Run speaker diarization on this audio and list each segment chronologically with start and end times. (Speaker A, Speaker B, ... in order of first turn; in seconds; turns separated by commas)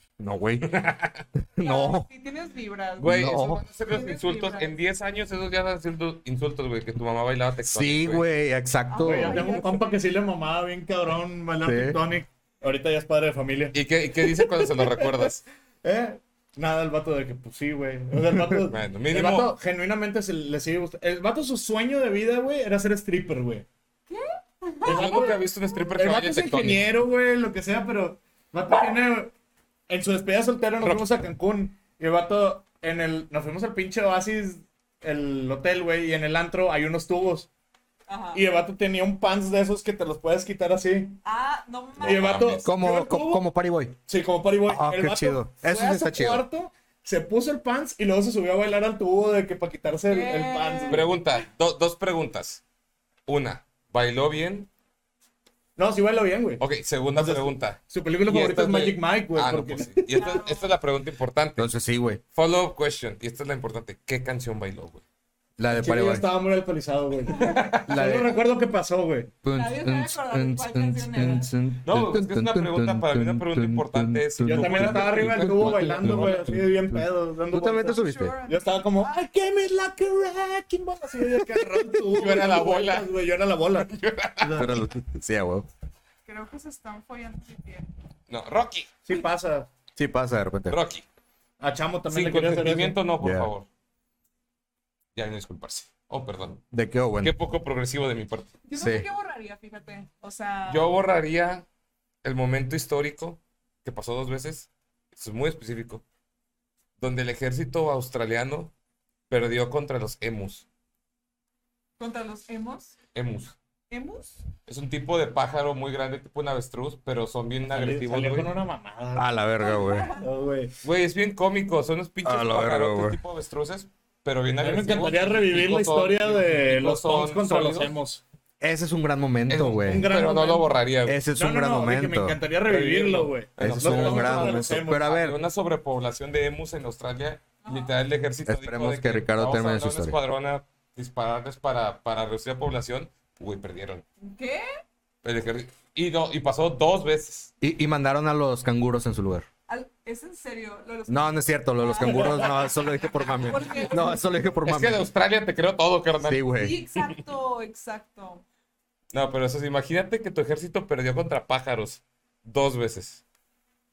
Speaker A: 0.2-0.7, Speaker B: 0.6-1.2, Speaker A: 1.6-2.1, Speaker C: 1.6-3.1, Speaker B: 3.0-8.2, Speaker A: 3.0-3.6, Speaker C: 3.9-4.8, Speaker A: 7.7-9.5, Speaker C: 8.9-10.0, Speaker D: 9.0-13.8, Speaker A: 11.6-12.0, Speaker B: 13.7-15.4, Speaker D: 14.3-15.3, Speaker D: 15.8-23.7, Speaker B: 18.7-19.5, Speaker C: 24.1-25.8, Speaker B: 24.9-26.9, Speaker D: 24.9-29.3, Speaker D: 29.9-37.5, Speaker C: 38.1-38.4, Speaker D: 38.3-41.2, Speaker C: 41.2-42.5, Speaker B: 42.0-42.7, Speaker D: 42.0-43.4, Speaker A: 42.6-44.0, Speaker D: 44.1-51.1, Speaker A: 44.7-46.5, Speaker C: 50.1-51.1, Speaker B: 50.9-52.6, Speaker B: 53.3-54.7, Speaker D: 55.8-56.6, Speaker B: 56.6-61.8, Speaker D: 57.2-60.0, Speaker C: 60.1-60.7, Speaker A: 61.6-62.2, Speaker B: 62.3-65.0, Speaker A: 65.6-66.3, Speaker D: 65.7-69.3, Speaker C: 67.3-67.8, Speaker B: 67.4-68.2, Speaker A: 67.9-68.4, Speaker A: 69.4-78.4, Speaker C: 69.5-71.5, Speaker B: 71.8-76.5, Speaker D: 74.5-84.7, Speaker C: 77.9-79.1, Speaker A: 81.2-82.2, Speaker B: 82.1-83.1, Speaker B: 83.8-84.7, Speaker A: 84.5-85.7, Speaker C: 86.3-87.9, Speaker B: 88.3-88.9, Speaker D: 89.1-89.7, Speaker A: 90.0-90.8, Speaker B: 90.7-91.0, Speaker D: 91.6-93.0, Speaker B: 92.1-93.7, Speaker A: 93.2-93.5, Speaker B: 95.2-96.6, Speaker A: 96.7-97.3, Speaker B: 97.2-98.5, Speaker C: 98.7-100.9, Speaker A: 98.8-99.1, Speaker B: 100.7-101.7, Speaker B: 102.2-106.0, Speaker B: 107.0-108.7, Speaker B: 109.3-110.7, Speaker C: 112.0-113.0, Speaker B: 113.1-113.5, Speaker C: 113.9-114.4, Speaker B: 114.7-118.5, Speaker D: 117.7-119.3, Speaker A: 119.2-120.1, Speaker C: 119.6-120.3, Speaker D: 120.2-120.7, Speaker B: 120.8-128.0, Speaker A: 122.2-123.2, Speaker D: 124.6-128.2, Speaker A: 128.6-130.1, Speaker B: 129.5-131.2, Speaker D: 129.8-130.7, Speaker A: 131.1-132.4, Speaker D: 131.3-135.1, Speaker B: 132.7-144.0, Speaker A: 133.6-135.4, Speaker C: 137.6-137.9, Speaker A: 138.5-140.2, Speaker C: 144.2-144.7, Speaker B: 145.2-147.5, Speaker A: 147.6-149.5, Speaker C: 149.7-154.3, Speaker A: 151.1-155.1, Speaker B: 154.6-156.5, Speaker A: 156.2-156.8, Speaker C: 156.6-158.4, Speaker B: 159.1-163.2